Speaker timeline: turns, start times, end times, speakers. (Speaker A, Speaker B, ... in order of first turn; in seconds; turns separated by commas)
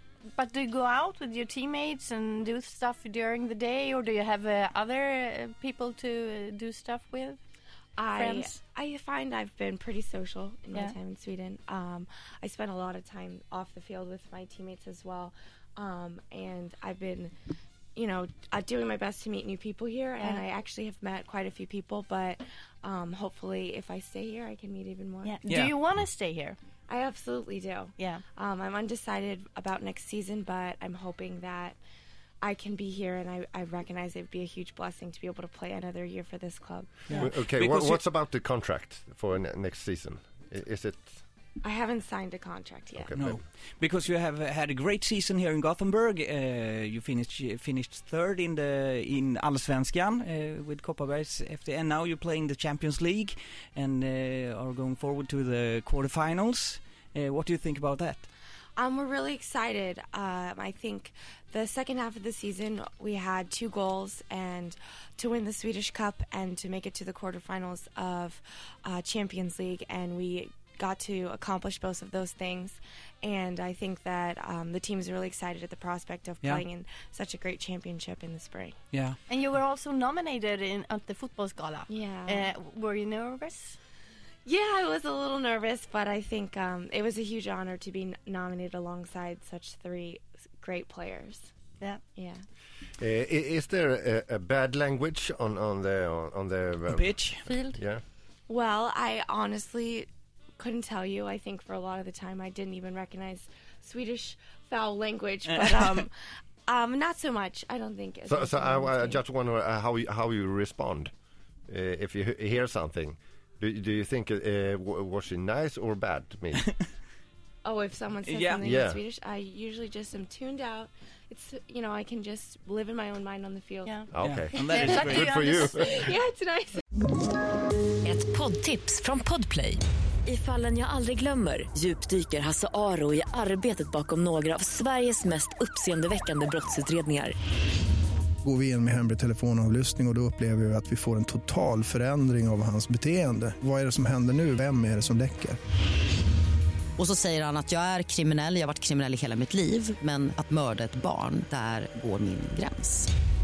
Speaker A: 0.3-7.4, Speaker B: 8.0-17.3, Speaker A: 8.2-8.6, Speaker B: 17.9-25.4, Speaker A: 20.2-20.4, Speaker A: 25.2-26.6, Speaker C: 25.5-25.8, Speaker B: 26.9-31.8, Speaker A: 28.0-28.2, Speaker B: 32.4-37.3, Speaker C: 37.1-38.0, Speaker D: 37.1-41.2, Speaker B: 41.6-43.1, Speaker D: 43.0-43.4, Speaker C: 43.2-58.3, Speaker B: 58.8-78.8, Speaker A: 79.3-83.8, Speaker B: 81.9-82.5, Speaker B: 84.5-91.5, Speaker B: 92.2-92.4, Speaker D: 93.0-97.1, Speaker C: 96.9-97.5, Speaker A: 97.5-97.8, Speaker D: 97.7-98.0, Speaker B: 98.5-100.1, Speaker B: 100.6-106.1, Speaker B: 106.7-109.2, Speaker D: 108.3-111.1, Speaker D: 111.7-116.6, Speaker B: 117.6-124.0, Speaker C: 118.3-118.6, Speaker D: 118.6-119.0, Speaker A: 123.8-126.0, Speaker D: 124.1-125.9, Speaker C: 124.2-125.4, Speaker B: 125.8-126.8, Speaker E: 128.0-137.3, Speaker F: 138.4-145.6, Speaker G: 147.0-153.1